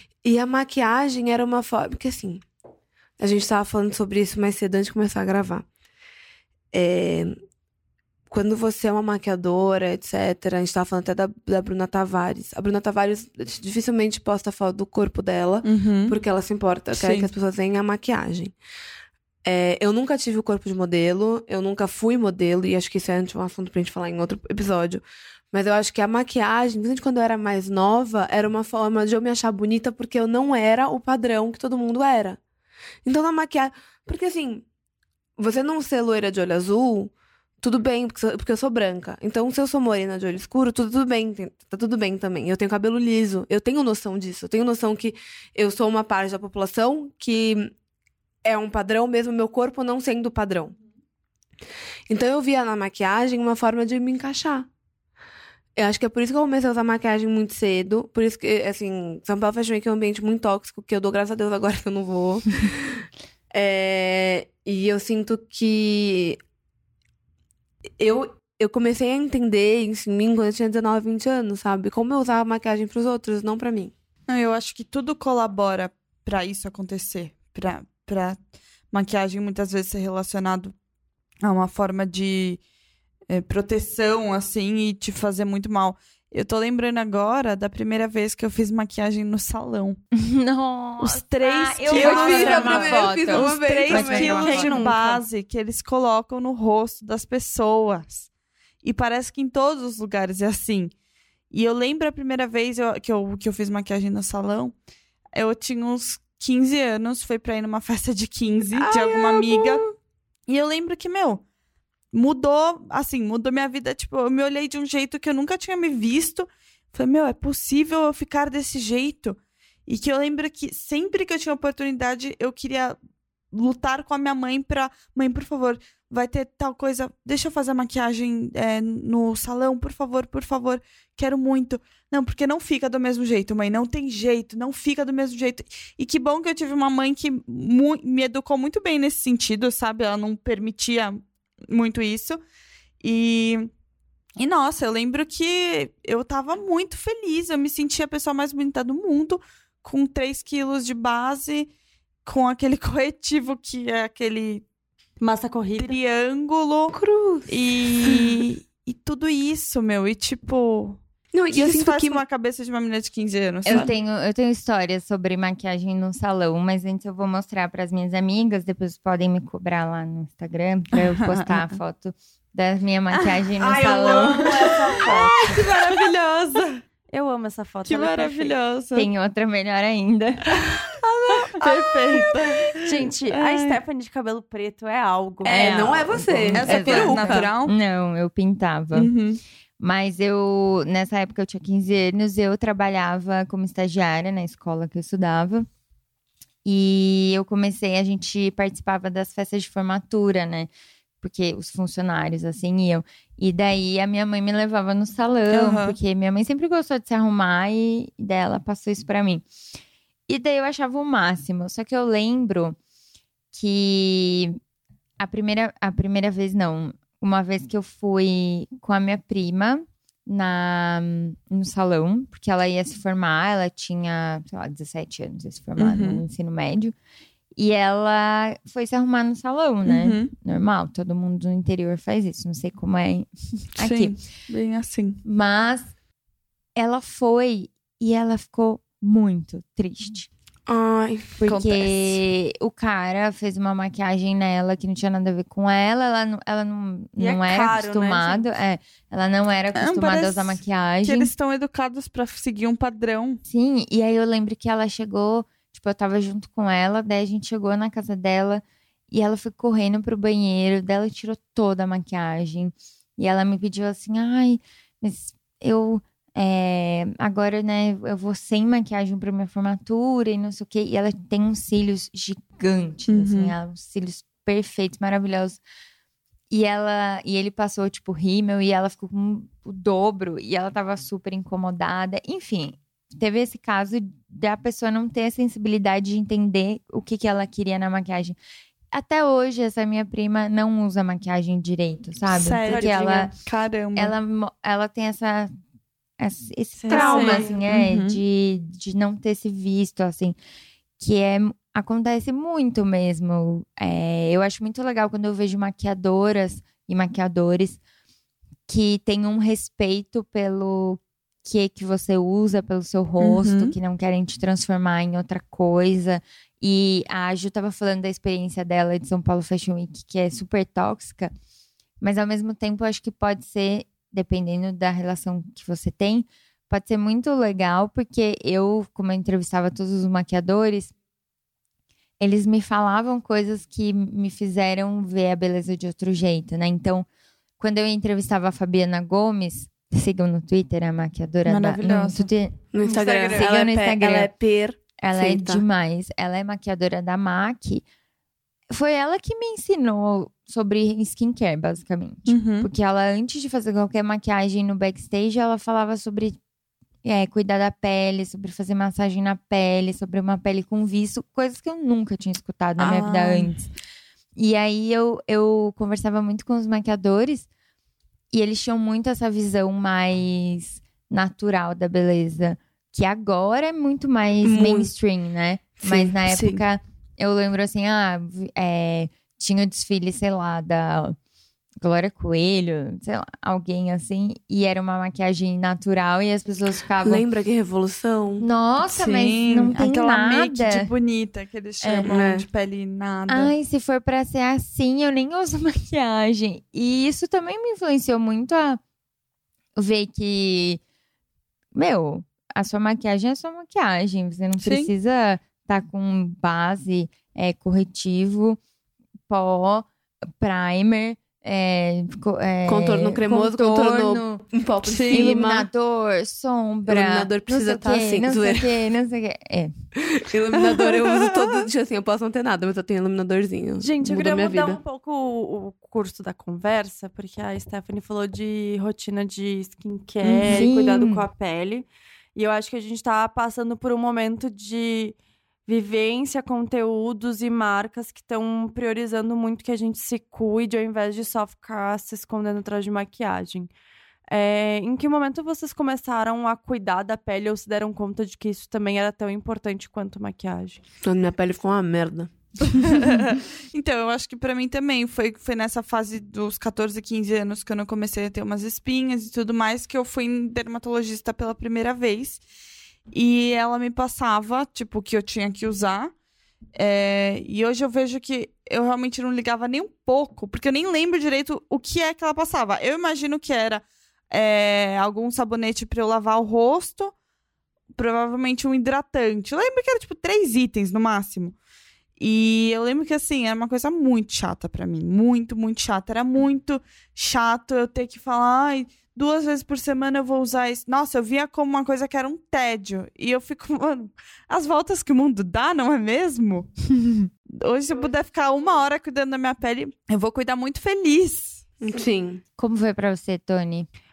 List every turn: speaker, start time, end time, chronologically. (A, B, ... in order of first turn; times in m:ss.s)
0:00.2-0:02.4 A
0:03.2-0:05.6 A
0:06.7-0:07.3 A
0:08.3-0:18.6 A
0:15.6-0:16.2 B
0:16.9-0:17.3 B
0:19.4-0:32.4 A
0:33.0-0:34.6 A
0:35.4-0:47.7 A
0:48.4-0:50.8 A
0:52.1-0:54.7 A
0:55.8-1:06.4 A
1:08.0-1:13.9 A
1:14.3-1:18.4 B
1:18.9-1:20.7 B
1:21.4-1:22.6 B
1:23.3-1:30.0 B
1:30.1-1:34.7 C
1:31.0-1:38.3 B
1:31.9-1:34.8 A
1:34.3-1:35.2 D
1:38.8-1:40.9 B
1:41.5-1:44.7 B
1:45.3-1:49.9 B
1:48.8-1:49.9 A
1:50.5-1:51.4 B
1:52.1-2:03.0 B
2:03.5-2:22.4 B
2:23.0-2:23.7 B
2:24.4-2:31.7 B
2:32.3-2:34.6 B
2:35.2-2:35.9 D
2:35.8-2:37.0 B
2:36.9-2:38.4 A
2:37.5-2:41.0 B
2:41.3-2:42.2 A
2:41.5-2:43.9 B
2:43.6-2:54.7 C
2:50.9-2:51.7 B
2:53.1-2:56.6 B
2:53.6-2:58.5 D
2:57.9-2:59.1 B
2:58.9-3:00.7 C
3:01.0-3:02.2 D
3:01.6-3:03.8 B
3:02.1-3:02.7 A
3:02.8-3:06.4 D
3:05.4-3:07.5 A
3:05.4-3:09.1 C
3:06.5-3:07.7 B
3:08.9-3:09.4 B
3:09.8-3:15.7 C
3:16.6-3:20.7 C
3:21.2-3:29.4 C
3:25.5-3:26.0 B
3:30.3-3:32.8 C
3:33.5-3:34.6 C
3:35.2-3:46.9 C
3:45.8-3:46.2 B
3:47.6-3:54.2 C
3:49.8-3:50.3 B
3:53.8-3:55.2 B
3:55.2-3:55.8 C
3:56.8-4:00.3 C
4:00.7-4:01.4 A
4:01.4-4:11.3 C
4:01.4-4:02.2 B
4:07.2-4:08.4 D
4:09.7-4:13.4 B
4:13.5-4:35.6 C
4:33.1-4:33.6 B
4:36.5-4:48.4 C
4:48.9-4:53.3 C
4:52.3-4:54.1 B
4:52.7-4:53.3 D
4:54.0-4:55.5 C
4:56.2-5:00.4 C
4:56.8-4:57.5 D
4:56.9-4:57.5 A
4:57.0-4:58.2 B
5:01.0-5:07.8 C
5:08.7-5:21.3 C
5:13.2-5:13.7 B
5:22.0-5:30.9 C
5:32.2-5:37.0 C
5:37.6-5:42.6 C
5:41.4-5:42.3 B
5:42.7-5:45.6 A
5:42.8-5:43.5 D
5:43.3-5:44.3 C
5:45.0-5:47.8 C
5:48.7-5:56.4 C
5:52.3-5:52.7 B
5:57.0-6:03.6 C
6:02.8-6:03.6 B
6:04.4-6:07.5 C
6:08.3-6:21.2 C
6:14.4-6:14.9 A
6:15.8-6:16.1 A
6:16.3-6:16.6 B
6:21.8-6:27.2 C
6:27.0-6:28.4 A
6:28.4-6:30.9 C
6:28.9-6:33.5 B
6:31.8-6:32.1 C
6:32.1-6:32.4 A
6:33.3-6:38.8 C
6:39.8-6:40.8 C
6:41.7-6:48.6 C
6:44.6-6:44.9 B
6:49.3-6:49.9 C
6:50.4-6:54.4 C
6:52.6-6:55.7 A
6:54.8-6:55.3 B
6:55.1-6:59.7 C
6:56.9-6:58.7 A
7:00.2-7:04.8 A
7:03.8-7:23.7 D
7:10.2-7:10.6 B
7:10.5-7:11.2 C
7:24.3-7:30.8 D
7:31.0-7:32.3 A
7:32.8-7:42.4 B
7:43.1-7:46.1 B
7:46.8-7:57.1 B
7:57.9-8:01.5 B
8:02.2-8:16.7 B
8:17.6-8:21.6 B
8:21.8-8:22.4 A
8:22.6-8:23.9 C